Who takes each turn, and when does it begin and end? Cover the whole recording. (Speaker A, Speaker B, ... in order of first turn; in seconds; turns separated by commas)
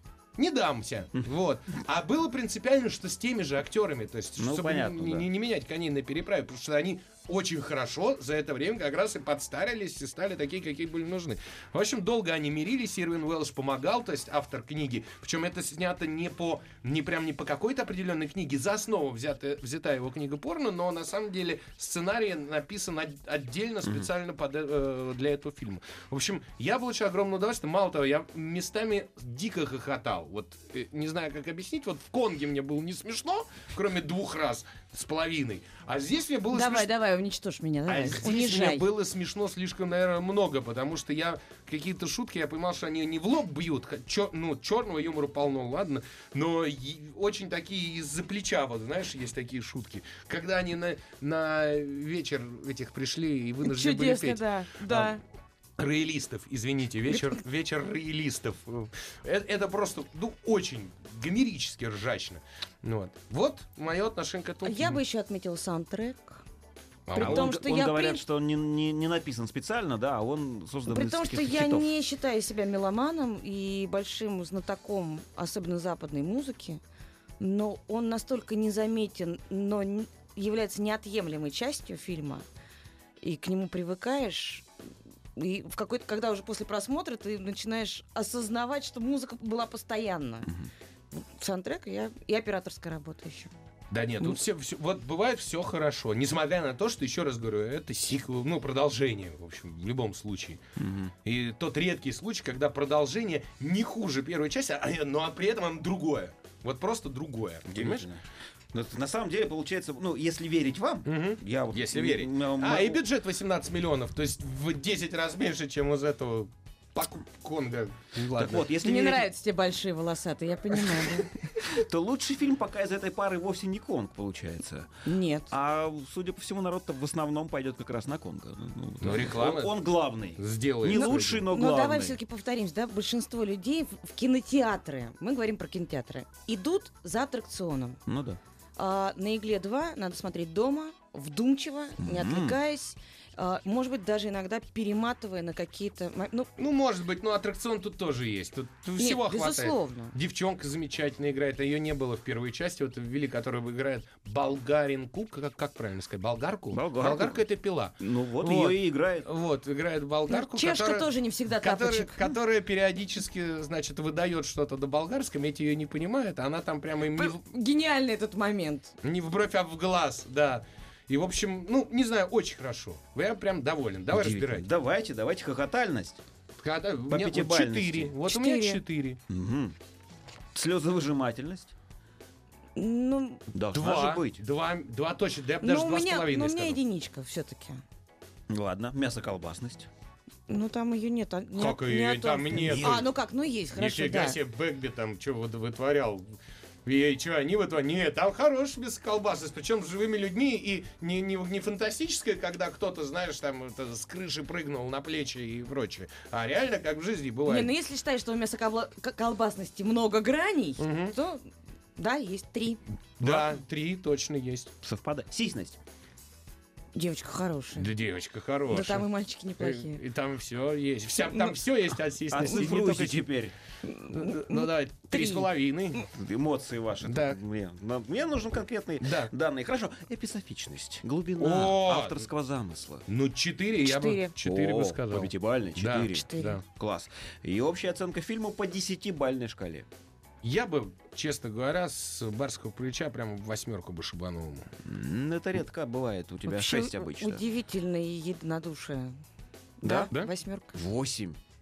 Speaker A: 0.4-36.9, Speaker B: 4.4-5.3, Speaker C: 36.5-38.9, Speaker A: 37.9-55.2, Speaker C: 53.6-55.2, Speaker A: 55.8-65.0, Speaker C: 64.6-66.4, Speaker A: 67.1-67.5, Speaker C: 67.1-68.2, Speaker B: 67.2-71.9, Speaker C: 70.9-76.8, Speaker C: 77.4-82.4, Speaker C: 83.2-84.7, Speaker C: 85.3-90.5, Speaker C: 91.1-93.5, Speaker A: 93.9-100.6, Speaker B: 100.8-101.1, Speaker A: 101.2-108.1, Speaker B: 107.7-113.0, Speaker A: 111.0-118.7, Speaker B: 118.3-119.3, Speaker C: 118.8-121.4, Speaker B: 121.6-124.9, Speaker C: 125.0-125.5, Speaker B: 125.5-132.2, Speaker A: 129.0-129.7, Speaker A: 130.4-131.4, Speaker C: 130.9-138.0, Speaker B: 138.1-138.4, Speaker C: 138.8-146.5, Speaker B: 142.0-142.6, Speaker A: 146.6-161.1, Speaker C: 149.0-150.1, Speaker B: 156.7-159.3, Speaker C: 160.3-162.3, Speaker A: 161.6-167.4, Speaker C: 167.2-168.9, Speaker A: 169.0-174.6, Speaker B: 174.1-176.2, Speaker A: 176.6-179.2, Speaker B: 177.1-178.1, Speaker C: 178.2-178.8, Speaker B: 179.3-179.8, Speaker B: 180.5-181.7, Speaker C: 182.8-183.4, Speaker B: 183.5-184.4, Speaker A: 183.7-186.8, Speaker C: 185.6-187.8, Speaker B: 188.5-189.9, Speaker C: 190.5-194.4, Speaker A: 191.6-193.1, Speaker B: 192.5-193.0, Speaker A: 193.7-196.3, Speaker A: 196.8-207.7, Speaker C: 207.4-211.4, Speaker A: 210.8-211.2, Speaker C: 212.0-212.8, Speaker A: 213.2-214.7, Speaker B: 213.2-213.5, Speaker B: 214.8-215.8, Speaker C: 216.9-217.9, Speaker A: 217.8-219.1, Speaker C: 218.7-220.0, Speaker A: 219.6-223.3, Speaker B: 222.3-223.5, Speaker C: 223.8-225.5, Speaker A: 224.1-226.1, Speaker B: 226.1-233.1, Speaker A: 227.0-227.4, Speaker A: 229.0-229.3, Speaker A: 231.4-232.2, Speaker A: 233.1-236.6, Speaker C: 233.8-234.3, Speaker B: 234.4-239.9, Speaker C: 236.1-236.6, Speaker A: 240.4-244.7, Speaker B: 244.8-247.4, Speaker C: 246.5-249.2, Speaker C: 249.8-250.8, Speaker B: 249.8-250.1, Speaker B: 250.7-251.4